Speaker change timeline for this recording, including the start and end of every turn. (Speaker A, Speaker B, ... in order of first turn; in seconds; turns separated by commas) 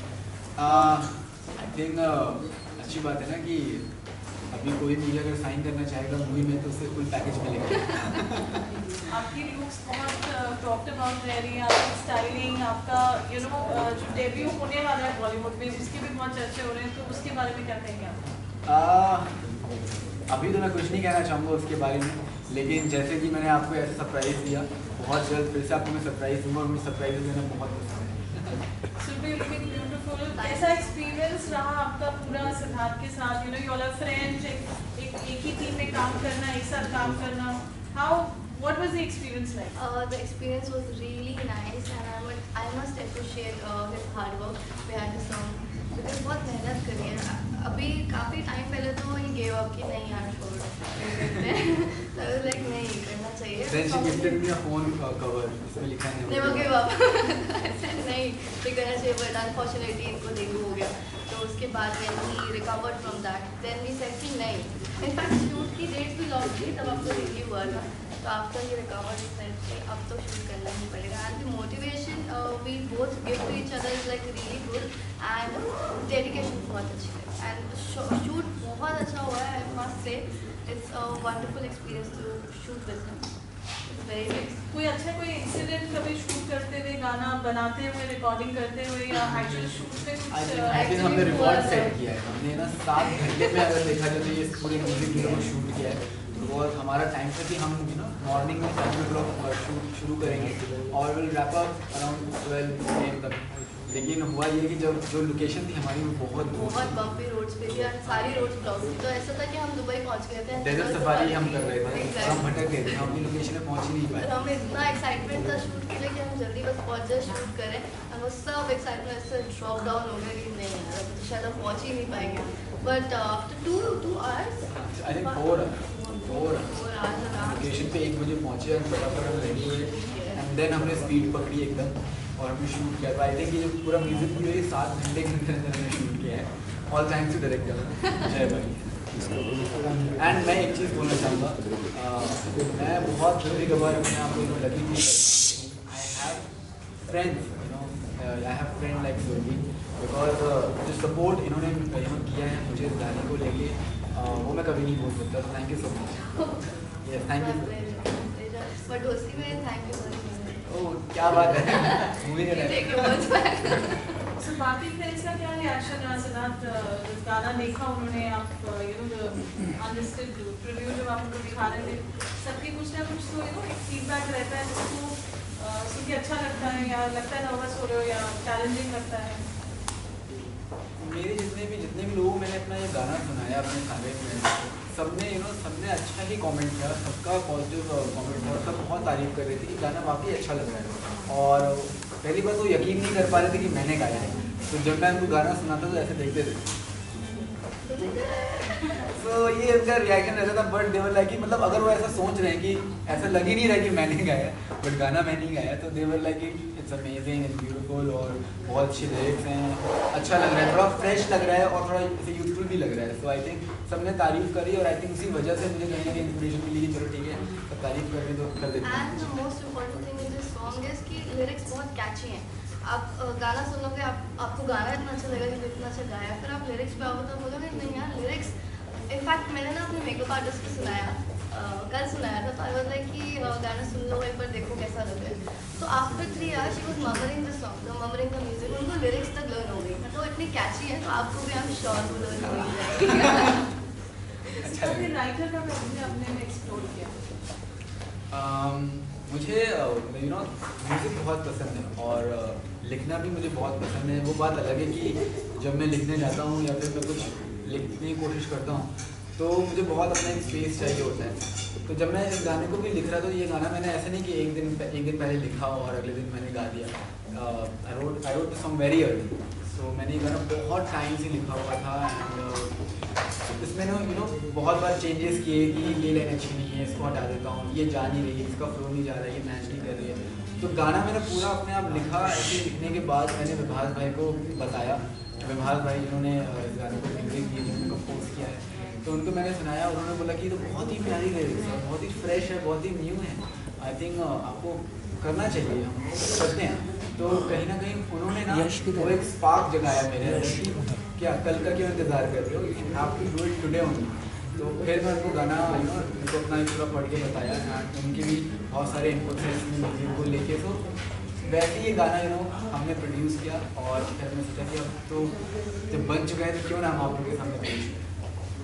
Speaker A: 0.6-3.9, Speaker A: 4.5-8.6, Speaker B: 9.1-18.2, Speaker A: 18.6-19.4, Speaker A: 20.3-28.6, Speaker B: 29.0-39.8, Speaker C: 30.4-31.2, Speaker C: 39.8-54.4, Speaker A: 53.6-56.7, Speaker C: 56.3-83.3, Speaker C: 83.9-84.6, Speaker B: 84.3-91.9, Speaker A: 90.3-107.0, Speaker C: 90.7-91.9, Speaker C: 93.1-93.5, Speaker C: 106.5-112.8, Speaker A: 110.6-114.3, Speaker C: 114.2-125.6, Speaker A: 124.7-126.8, Speaker C: 126.2-127.8, Speaker A: 127.4-139.0, Speaker C: 130.1-130.4, Speaker A: 140.1-146.5, Speaker A: 147.1-156.3, Speaker C: 156.3-156.8, Speaker A: 157.0-157.7, Speaker C: 157.3-160.7, Speaker A: 160.7-163.2, Speaker C: 161.6-164.2, Speaker B: 164.4-179.4, Speaker A: 181.0-196.7, Speaker C: 197.8-199.1, Speaker A: 199.1-219.3, Speaker C: 218.8-228.5, Speaker C: 229.1-243.7, Speaker A: 242.5-243.2, Speaker A: 244.6-245.1, Speaker B: 244.6-247.2, Speaker A: 248.3-272.8, Speaker A: 273.6-310.9, Speaker A: 311.4-315.4, Speaker A: 315.9-318.0